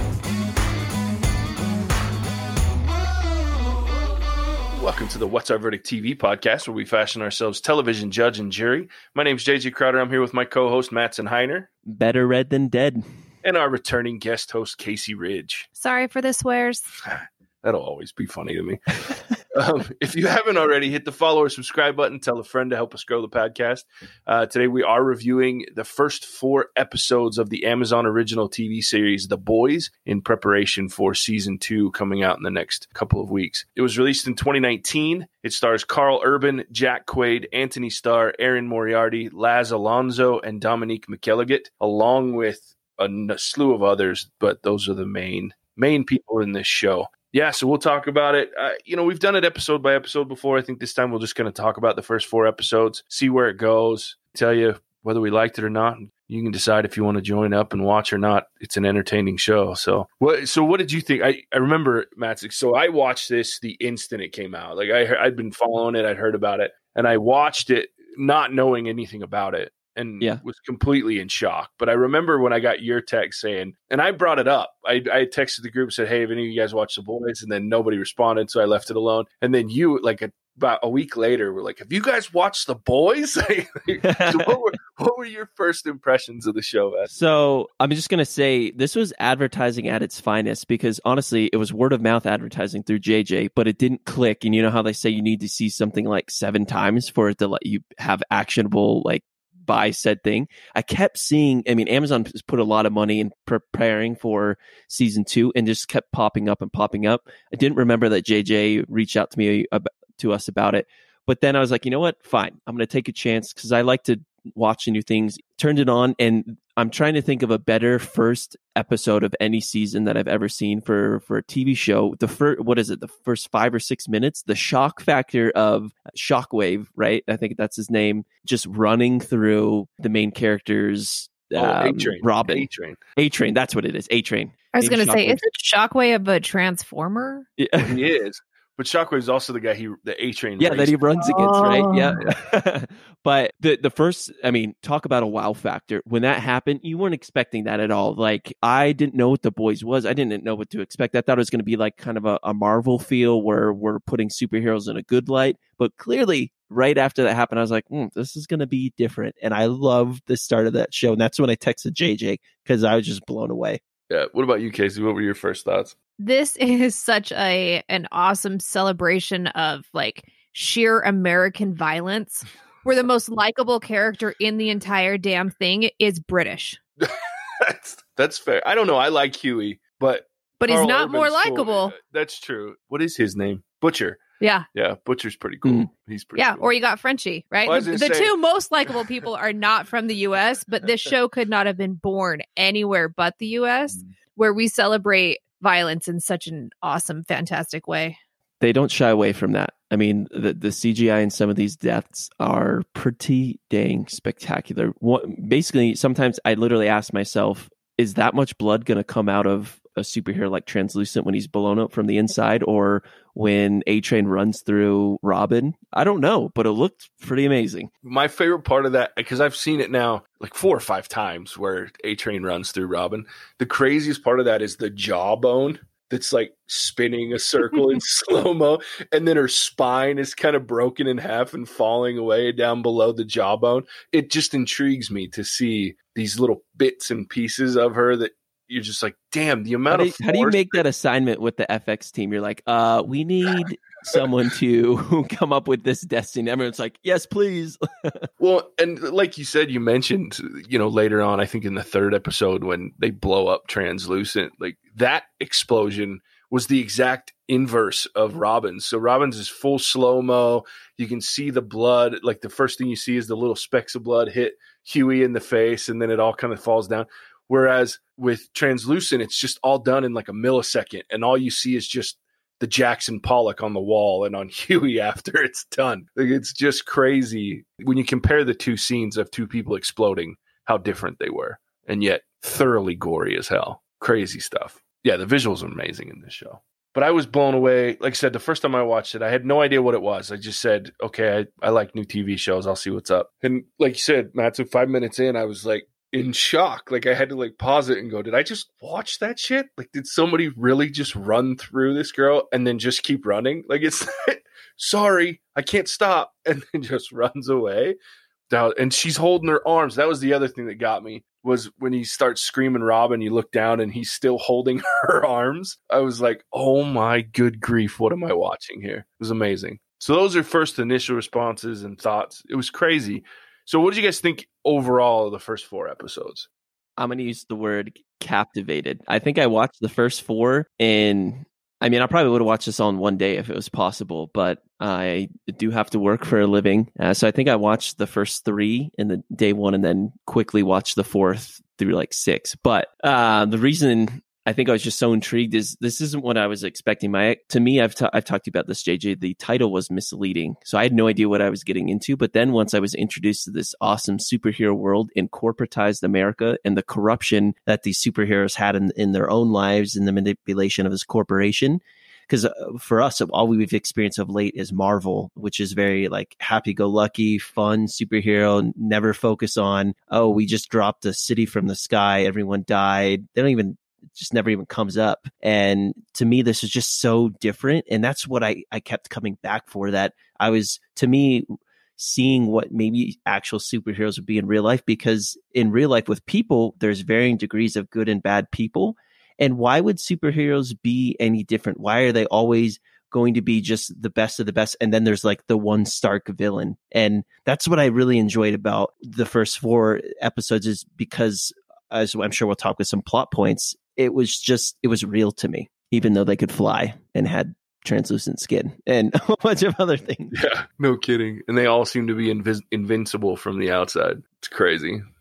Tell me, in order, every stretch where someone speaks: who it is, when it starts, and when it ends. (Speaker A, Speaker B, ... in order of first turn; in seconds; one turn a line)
Speaker A: 4.7-11.7
Speaker B: 11.8-13.0
Speaker A: 13.4-15.7
Speaker C: 15.8-16.9
Speaker A: 17.0-18.8
Speaker A: 19.5-87.1
Speaker B: 84.0-84.5
Speaker B: 87.1-135.4
Speaker A: 131.6-133.0
Speaker C: 134.7-137.5
Speaker B: 137.6-138.0
Speaker A: 137.8-141.0
Speaker B: 140.6-163.8
Speaker C: 141.2-142.2
Speaker A: 164.1-165.9
Speaker C: 166.2-176.8
Speaker A: 177.0-184.2
Speaker C: 180.6-181.9
Speaker C: 184.4-184.7
Speaker A: 184.7-186.7
Speaker C: 186.3-198.2
Speaker A: 187.6-188.3
Speaker B: 198.6-217.9
Speaker A: 218.0-240.8
Speaker B: 239.9-248.3
Speaker A: 248.4-307.9
Speaker A: 308.5-326.5
Speaker B: 327.0-410.4
Speaker A: 410.3-415.0